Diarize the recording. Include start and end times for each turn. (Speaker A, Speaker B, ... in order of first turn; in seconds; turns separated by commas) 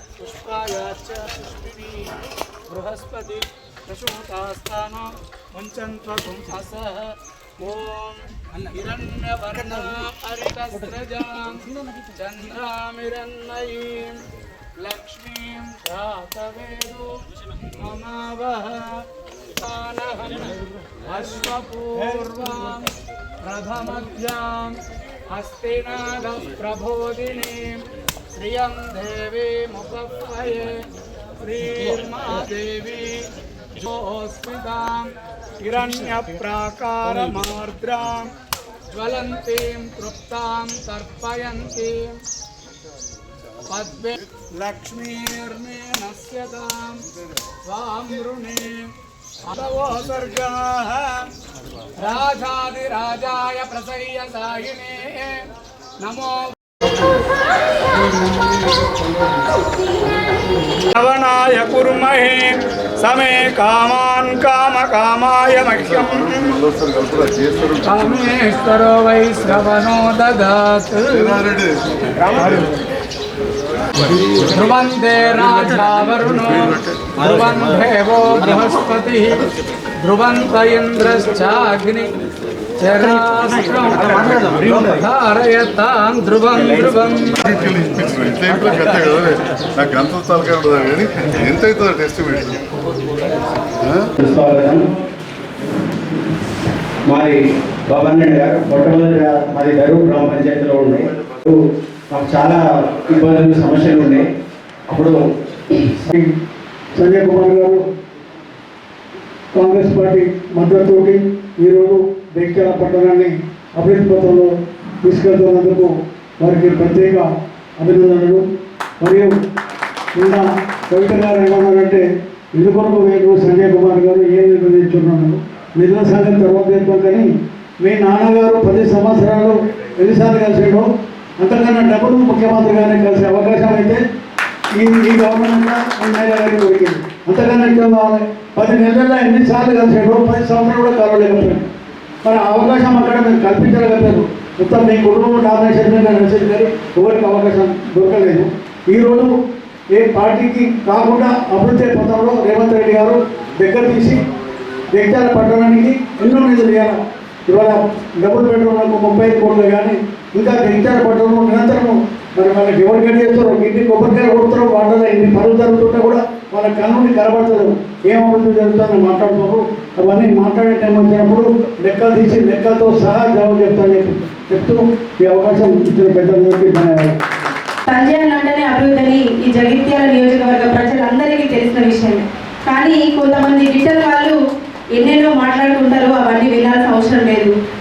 Speaker A: 0.2-2.2, Speaker A: 2.7-14.2, Speaker A: 14.8-17.1, Speaker A: 17.7-19.0, Speaker A: 19.6-22.9, Speaker A: 23.4-24.8, Speaker A: 25.3-27.8, Speaker A: 28.4-30.8, Speaker A: 31.4-33.2, Speaker A: 33.8-35.1, Speaker A: 35.6-38.3, Speaker A: 38.9-42.2, Speaker A: 43.7-47.0, Speaker A: 47.6-48.9, Speaker A: 49.5-51.3, Speaker A: 52.0-55.5, Speaker A: 56.0-56.5, Speaker A: 58.1-58.6, Speaker A: 60.7-66.4, Speaker B: 66.3-67.9, Speaker A: 67.8-71.4, Speaker B: 71.1-71.8, Speaker A: 72.3-72.7, Speaker A: 74.0-79.5, Speaker A: 80.0-82.2, Speaker A: 82.8-87.4, Speaker B: 87.4-92.6, Speaker B: 93.8-94.1, Speaker C: 94.2-94.9, Speaker C: 97.1-104.3, Speaker C: 104.9-105.3, Speaker D: 106.1-106.3, Speaker D: 106.9-107.8, Speaker D: 109.5-118.4, Speaker D: 119.0-119.3, Speaker D: 120.1-127.3, Speaker D: 127.8-130.9, Speaker D: 131.4-134.0, Speaker D: 134.7-141.7, Speaker D: 142.2-149.3, Speaker D: 149.9-154.2, Speaker D: 154.9-177.2, Speaker E: 177.9-184.4, Speaker E: 184.9-187.5